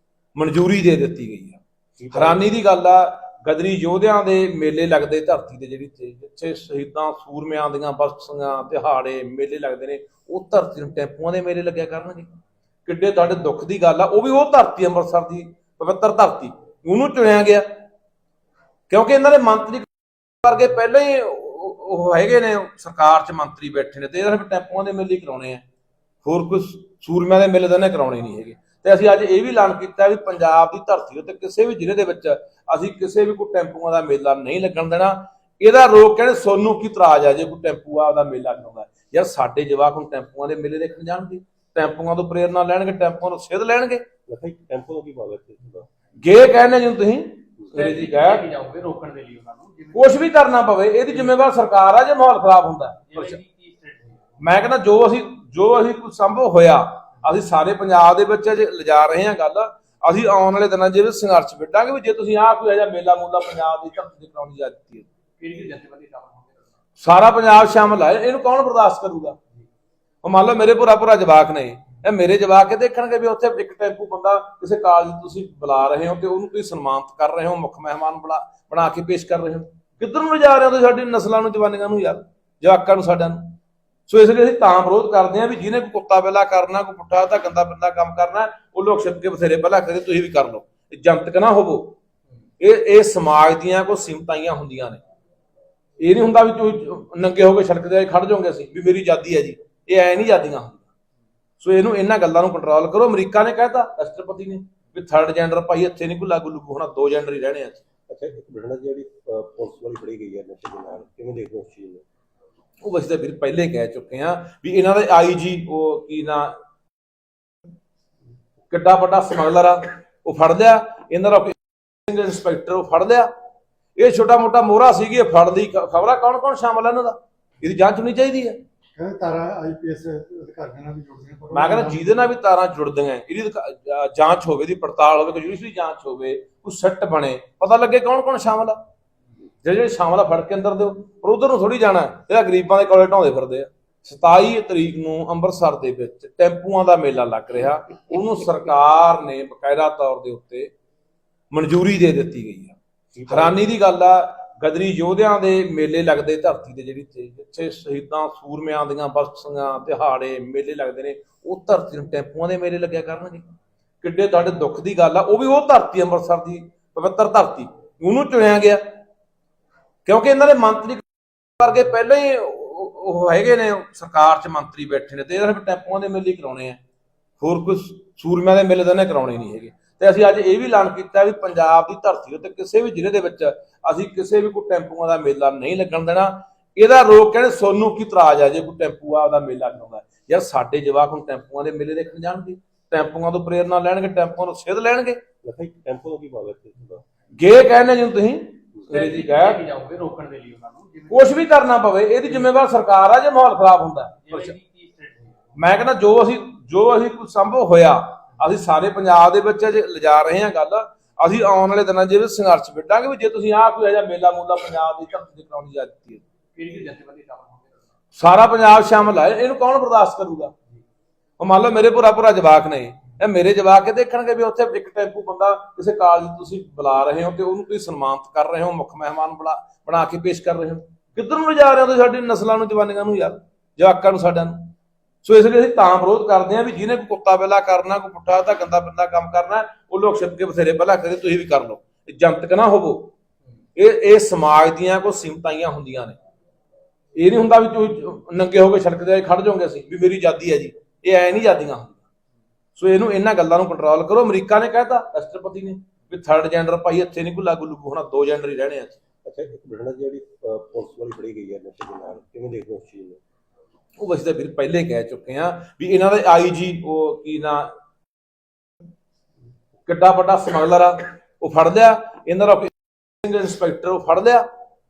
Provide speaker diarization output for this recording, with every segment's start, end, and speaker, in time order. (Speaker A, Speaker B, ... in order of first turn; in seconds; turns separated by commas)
Speaker A: 0.3-1.6, Speaker B: 2.0-2.5, Speaker A: 2.1-12.3, Speaker A: 12.8-17.7, Speaker A: 18.9-19.9, Speaker A: 20.4-25.6, Speaker A: 26.2-44.0, Speaker B: 44.3-45.9, Speaker A: 46.2-48.5, Speaker C: 47.7-50.2, Speaker A: 49.9-53.4, Speaker C: 53.1-54.2, Speaker A: 54.4-65.1, Speaker C: 65.4-66.6, Speaker A: 67.0-69.4, Speaker A: 70.2-83.5, Speaker A: 84.1-92.0, Speaker A: 92.6-95.0, Speaker A: 96.0-100.9, Speaker A: 101.6-107.8, Speaker B: 108.1-112.0, Speaker A: 112.8-116.5, Speaker A: 118.7-123.3, Speaker A: 124.0-128.6, Speaker D: 129.0-132.1, Speaker A: 131.5-138.8, Speaker A: 139.6-150.7, Speaker A: 151.5-152.8, Speaker B: 153.1-153.6, Speaker A: 153.3-163.5, Speaker A: 164.0-169.0, Speaker A: 170.1-171.1, Speaker A: 171.6-176.8, Speaker A: 177.4-195.2, Speaker B: 195.4-197.0, Speaker A: 197.3-199.6, Speaker C: 198.9-201.4, Speaker A: 201.1-204.6, Speaker C: 204.2-205.4, Speaker A: 205.6-216.2, Speaker C: 216.6-217.8, Speaker A: 218.2-220.5, Speaker A: 221.4-243.1, Speaker A: 243.8-246.2, Speaker A: 247.2-252.0, Speaker A: 252.8-259.0, Speaker B: 259.2-263.2, Speaker A: 264.0-267.7, Speaker A: 269.9-274.4